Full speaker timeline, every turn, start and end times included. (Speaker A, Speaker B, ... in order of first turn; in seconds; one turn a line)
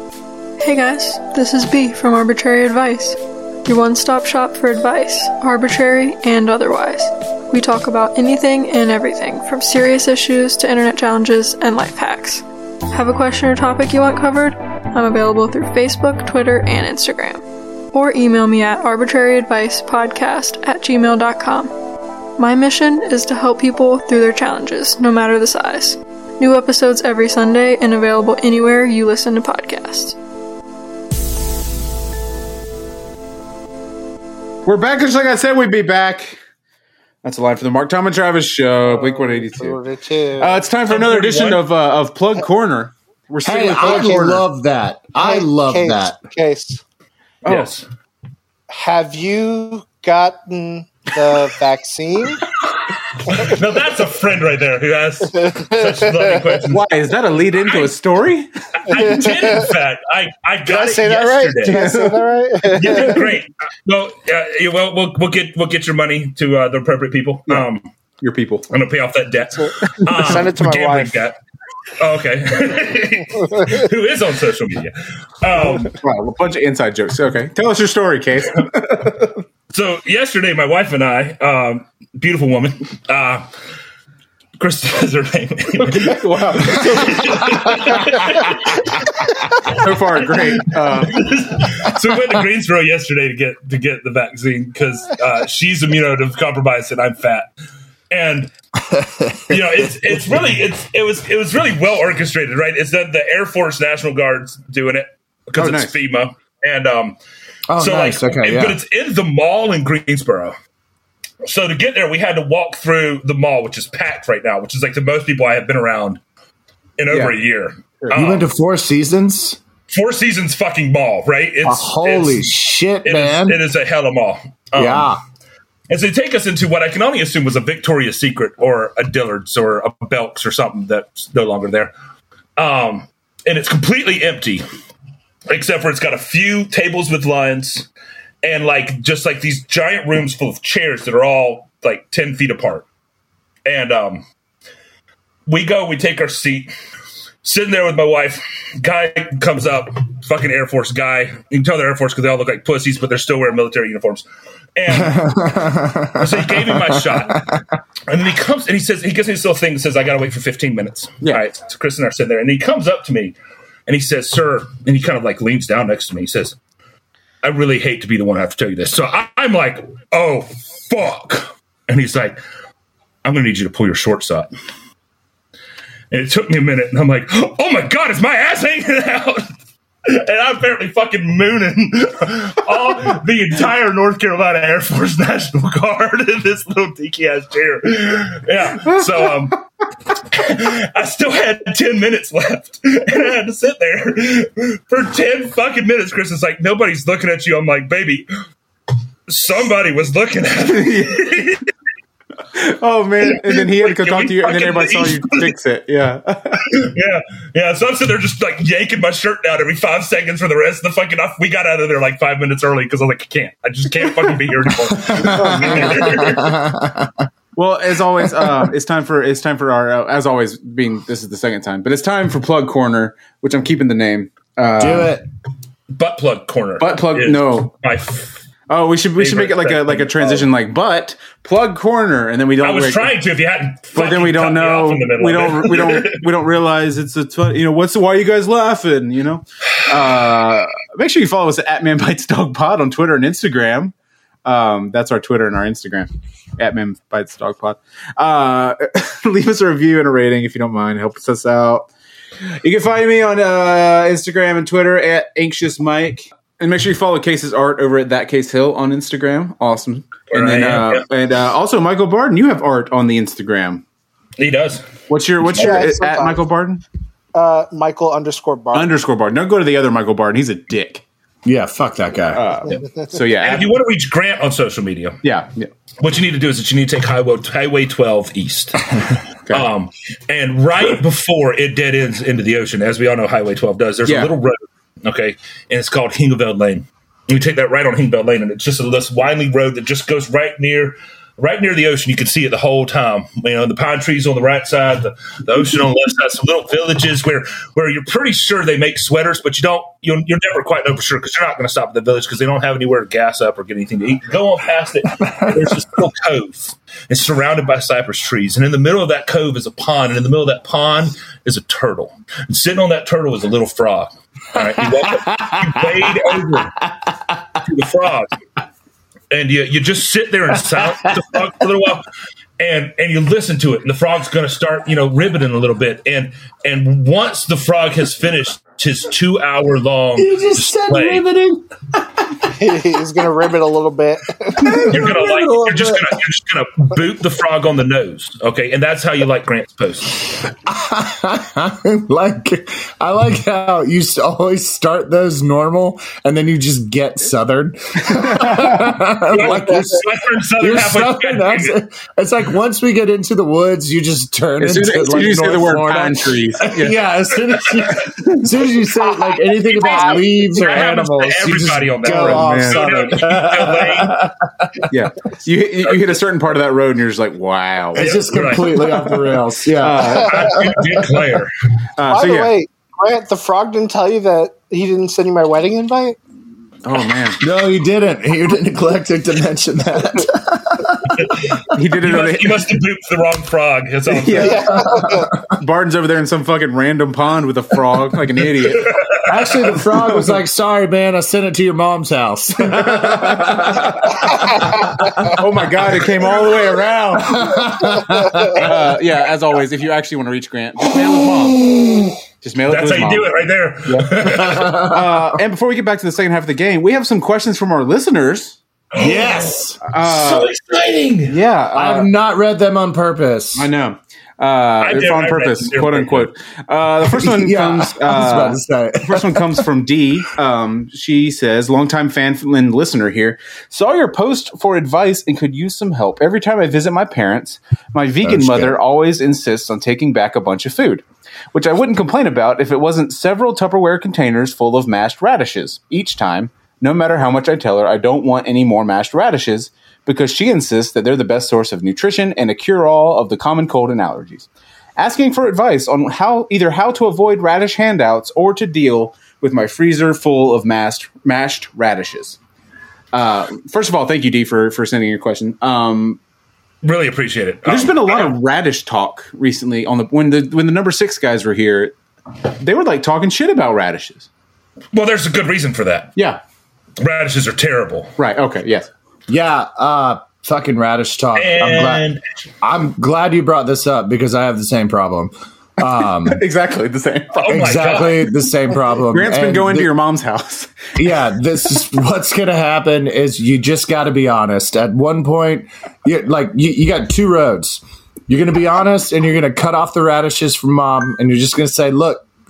Speaker A: 0.6-21.7
Speaker A: 22.4-30.1
Speaker B: 34.6-36.4
Speaker B: 37.2-39.8
Speaker C: 38.9-40.6
Speaker B: 40.4-44.3
Speaker D: 40.9-41.6
Speaker E: 43.4-46.2
Speaker C: 43.8-44.4
Speaker C: 45.2-46.8
Speaker B: 47.4-47.7
Speaker D: 47.5-47.9
Speaker C: 48.7-52.5
Speaker D: 53.2-56.9
Speaker C: 55.4-56.5
Speaker B: 56.7-59.3
Speaker D: 57.5-58.0
Speaker D: 58.9-61.9
Speaker C: 58.9-59.7
Speaker C: 60.6-63.3
Speaker B: 61.6-62.3
Speaker D: 62.7-67.9
Speaker B: 68.2-68.7
Speaker D: 68.7-71.3
Speaker C: 70.0-71.2
Speaker D: 72.0-75.9
Speaker B: 75.6-79.3
Speaker D: 79.7-83.5
Speaker D: 84.6-89.8
Speaker B: 85.8-88.2
Speaker B: 89.6-91.3
Speaker D: 90.6-97.5
Speaker D: 98.1-98.5
Speaker E: 98.8-100.2
Speaker D: 99.5-107.2
Speaker B: 105.5-105.9
Speaker E: 107.7-108.8
Speaker D: 107.8-110.5
Speaker D: 111.4-116.2
Speaker D: 117.0-118.4
Speaker B: 117.1-117.3
Speaker E: 118.1-119.6
Speaker D: 119.9-122.5
Speaker E: 121.6-123.6
Speaker D: 123.0-125.1
Speaker E: 124.8-125.2
Speaker D: 125.9-131.9
Speaker D: 132.6-134.6
Speaker D: 135.5-137.9
Speaker D: 138.4-142.8
Speaker D: 143.7-144.2
Speaker D: 145.5-146.7
Speaker D: 147.4-154.2
Speaker D: 154.8-155.5
Speaker E: 154.9-157.6
Speaker D: 156.1-157.5
Speaker D: 158.1-163.3
Speaker D: 163.9-166.6
Speaker D: 167.4-172.4
Speaker D: 173.2-174.5
Speaker D: 176.1-179.5
Speaker D: 180.1-189.6
Speaker D: 190.3-198.3
Speaker D: 199.3-201.6
Speaker B: 200.7-201.5
Speaker B: 202.5-206.7
Speaker D: 203.3-205.5
Speaker D: 206.6-216.6
Speaker E: 214.7-217.3
Speaker B: 215.4-215.9
Speaker B: 217.6-225.2
Speaker E: 218.2-218.7
Speaker E: 224.8-225.2
Speaker D: 225.9-228.4
Speaker B: 226.8-227.7
Speaker B: 228.7-233.1
Speaker D: 229.2-230.5
Speaker D: 232.6-236.3
Speaker B: 233.9-243.9
Speaker B: 244.4-251.9
Speaker B: 252.6-263.8
Speaker D: 260.3-261.0
Speaker D: 264.4-264.9
Speaker B: 265.1-266.8
Speaker C: 265.5-266.4
Speaker D: 265.6-265.9
Speaker C: 267.3-268.9
Speaker B: 268.7-271.0
Speaker E: 271.4-272.4
Speaker B: 272.3-273.8
Speaker D: 273.4-275.2
Speaker B: 275.2-275.7
Speaker D: 276.0-316.8
Speaker B: 284.1-284.3
Speaker E: 305.2-305.6
Speaker E: 314.6-317.3
Speaker D: 317.6-318.3
Speaker D: 319.3-322.0
Speaker D: 322.6-331.2
Speaker E: 330.2-331.7
Speaker C: 332.5-334.9
Speaker E: 334.6-336.1
Speaker D: 334.8-340.4
Speaker E: 340.6-364.9
Speaker B: 348.0-348.9
Speaker D: 349.3-351.8
Speaker B: 354.6-357.0
Speaker C: 359.0-360.2
Speaker D: 359.7-364.2
Speaker B: 362.0-362.9
Speaker B: 364.9-368.1
Speaker E: 367.9-370.6
Speaker D: 367.9-369.0
Speaker B: 369.8-370.6
Speaker D: 370.1-371.5
Speaker B: 372.0-372.5
Speaker C: 372.0-376.2
Speaker B: 376.8-377.4
Speaker E: 377.4-381.6
Speaker D: 381.2-384.7
Speaker B: 381.7-382.6
Speaker B: 384.1-384.7
Speaker C: 384.4-385.3
Speaker E: 384.7-385.4
Speaker B: 385.5-389.0
Speaker E: 389.3-395.4
Speaker B: 389.6-390.4
Speaker B: 392.9-393.9
Speaker B: 395.3-397.6
Speaker E: 397.1-398.8
Speaker B: 398.5-401.6
Speaker E: 400.9-402.2
Speaker B: 402.4-403.3
Speaker D: 402.7-404.8
Speaker B: 403.9-408.6
Speaker E: 404.2-405.4
Speaker D: 408.9-411.4
Speaker E: 409.0-409.8
Speaker B: 409.8-410.5
Speaker B: 411.3-412.1
Speaker E: 411.7-413.7
Speaker B: 413.5-452.4
Speaker D: 414.8-416.3
Speaker E: 417.0-419.6
Speaker E: 428.2-428.8
Speaker B: 453.1-456.2
Speaker D: 456.8-458.4
Speaker B: 457.6-461.9
Speaker B: 462.6-464.3
Speaker D: 464.9-466.1
Speaker D: 467.0-468.1
Speaker B: 468.2-468.9
Speaker E: 469.3-472.1
Speaker D: 471.3-472.2
Speaker E: 472.6-476.4
Speaker B: 476.2-477.5
Speaker D: 477.3-478.3
Speaker E: 477.5-479.9
Speaker B: 479.1-480.7
Speaker E: 480.9-492.2